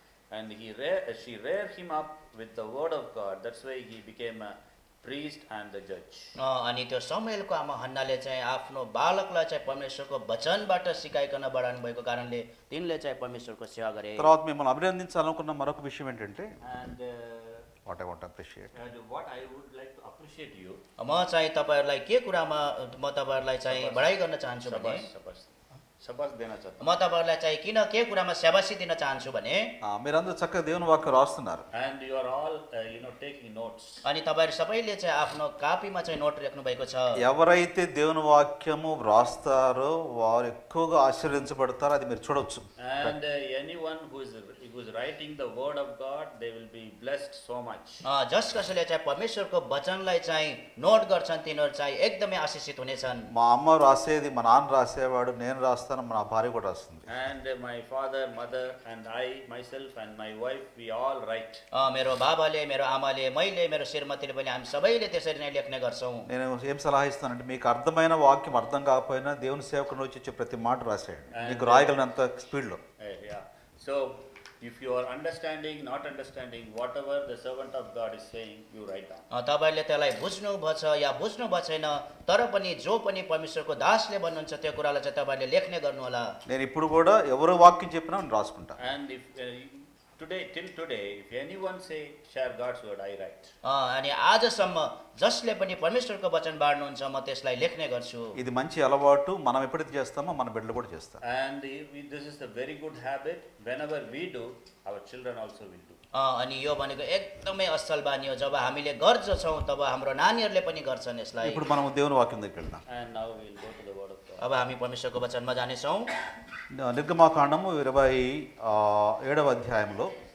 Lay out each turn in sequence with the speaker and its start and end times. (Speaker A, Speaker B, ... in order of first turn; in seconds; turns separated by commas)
Speaker A: 0.3-6.3, Speaker B: 6.4-14.3, Speaker C: 14.2-16.5, Speaker A: 16.6-17.7, Speaker C: 17.9-18.7, Speaker A: 18.8-20.8, Speaker B: 21.0-25.1, Speaker A: 23.7-26.9, Speaker B: 26.8-29.7, Speaker C: 29.8-31.7, Speaker A: 31.7-34.0, Speaker B: 34.0-37.2, Speaker C: 37.2-43.1, Speaker A: 42.8-48.0, Speaker B: 48.0-53.3, Speaker C: 53.3-57.1, Speaker A: 57.1-61.6, Speaker B: 61.7-66.3, Speaker C: 66.3-72.8, Speaker A: 71.3-72.0, Speaker A: 73.0-79.2, Speaker B: 79.3-86.3, Speaker C: 86.5-88.8, Speaker A: 88.8-93.5, Speaker B: 93.6-98.4, Speaker C: 98.4-101.2, Speaker A: 101.2-106.0, Speaker B: 106.1-111.7, Speaker C: 111.4-112.8, Speaker A: 112.9-114.5, Speaker B: 114.4-116.1, Speaker C: 116.7-120.1